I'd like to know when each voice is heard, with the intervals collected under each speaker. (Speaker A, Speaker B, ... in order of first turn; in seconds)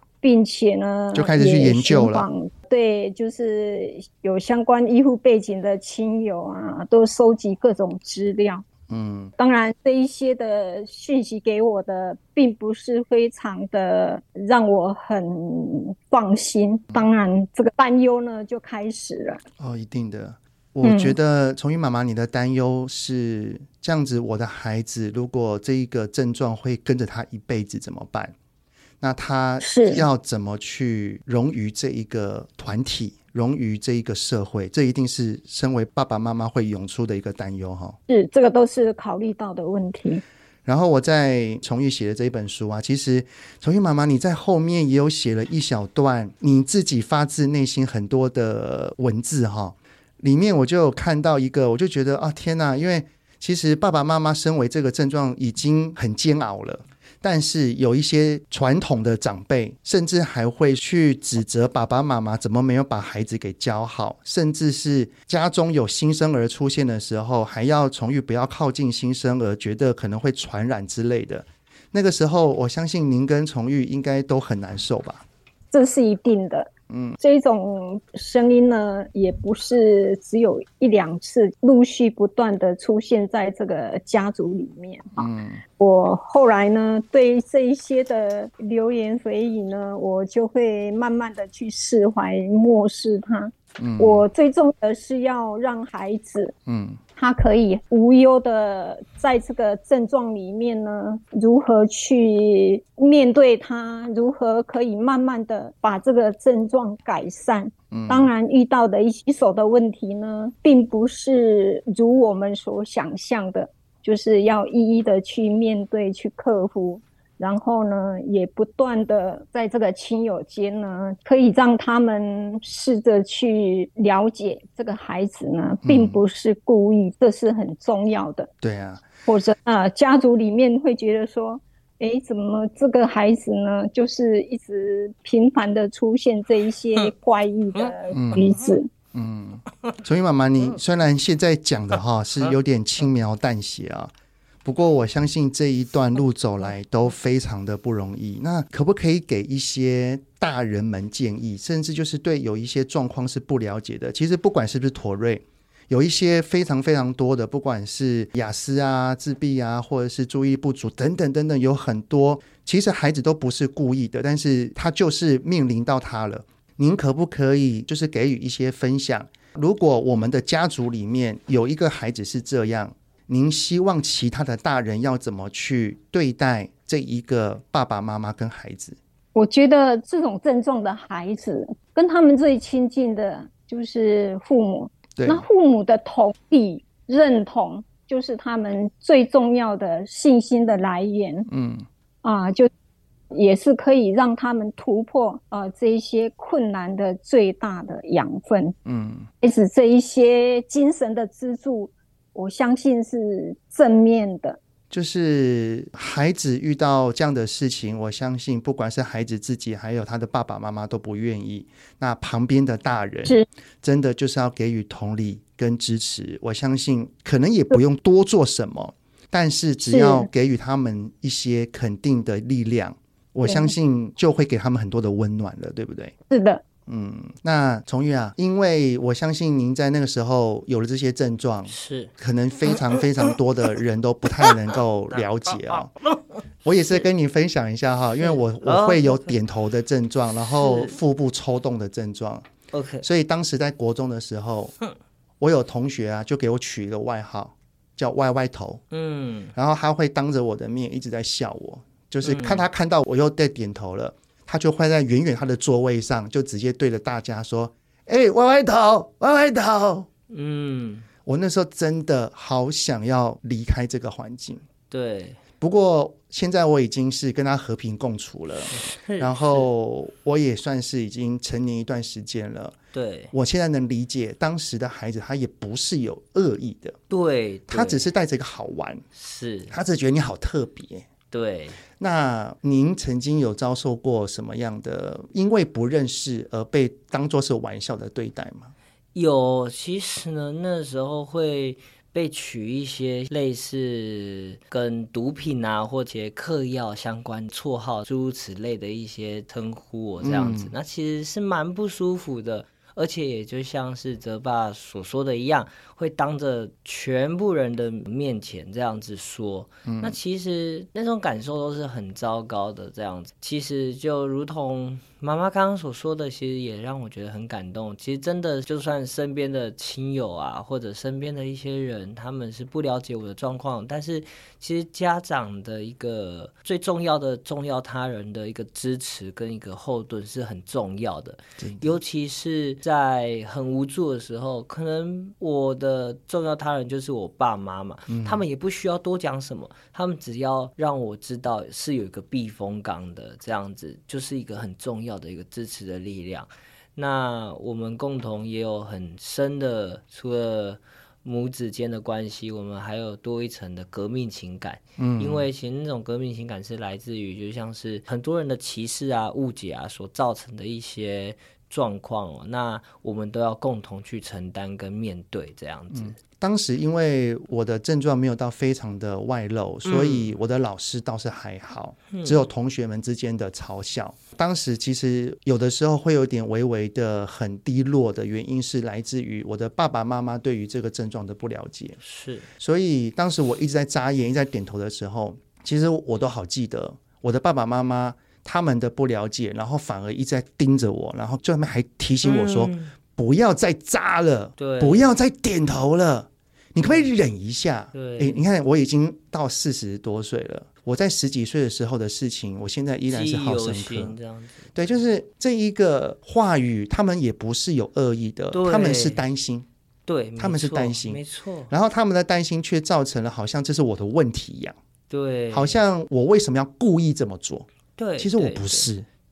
Speaker A: 0.2-8.7, 9.4-19.4, 20.8-21.1, 29.6-30.0, 38.1-40.2, 75.7-96.5, 97.2-128.5, 129.2-138.9, 179.3-191.5, 192.2-192.7, 193.3-198.7, 199.4-204.6, 219.8-220.3, 223.4-223.7, 226.3-226.6
Speaker B: 1.1-2.2, 8.9-9.3, 19.6-28.3, 29.0-38.0, 40.6-75.2, 76.9-77.2, 85.2-85.6, 93.8-94.2, 96.7-97.0, 107.9-108.3, 125.8-126.2, 128.6-129.1, 138.1-138.6, 139.1-144.1, 144.6-179.0, 185.1-185.4, 191.5-191.8, 198.8-199.3, 204.9-226.1, 226.9-235.9, 236.6-242.5, 243.0-244.7, 245.4-248.8, 249.5-260.1, 261.2-264.6, 265.6-272.8, 273.3-276.9, 277.7-279.0, 279.7-281.1, 282.0-288.7, 300.2-300.7, 309.9-310.2, 331.6-331.9, 338.1-338.4, 355.0-355.5, 365.9-382.0, 382.6-404.1, 404.7-409.6, 410.4-414.8, 415.5-417.7, 418.2-419.1
Speaker C: 231.7-232.1, 235.8-236.2, 238.2-239.3, 240.6-240.9, 242.7-243.1, 248.9-249.5, 252.2-252.7, 260.3-261.1, 264.9-265.4, 268.7-269.7, 272.9-273.3, 277.1-278.1, 279.1-279.8, 281.3-281.8, 289.1-366.2, 369.8-370.3, 372.1-372.4, 382.0-382.5, 392.2-392.9, 394.6-395.0, 396.8-397.1, 397.9-398.4, 403.1-404.9, 408.5-409.2, 410.1-411.7, 415.1-415.8, 418.0-418.9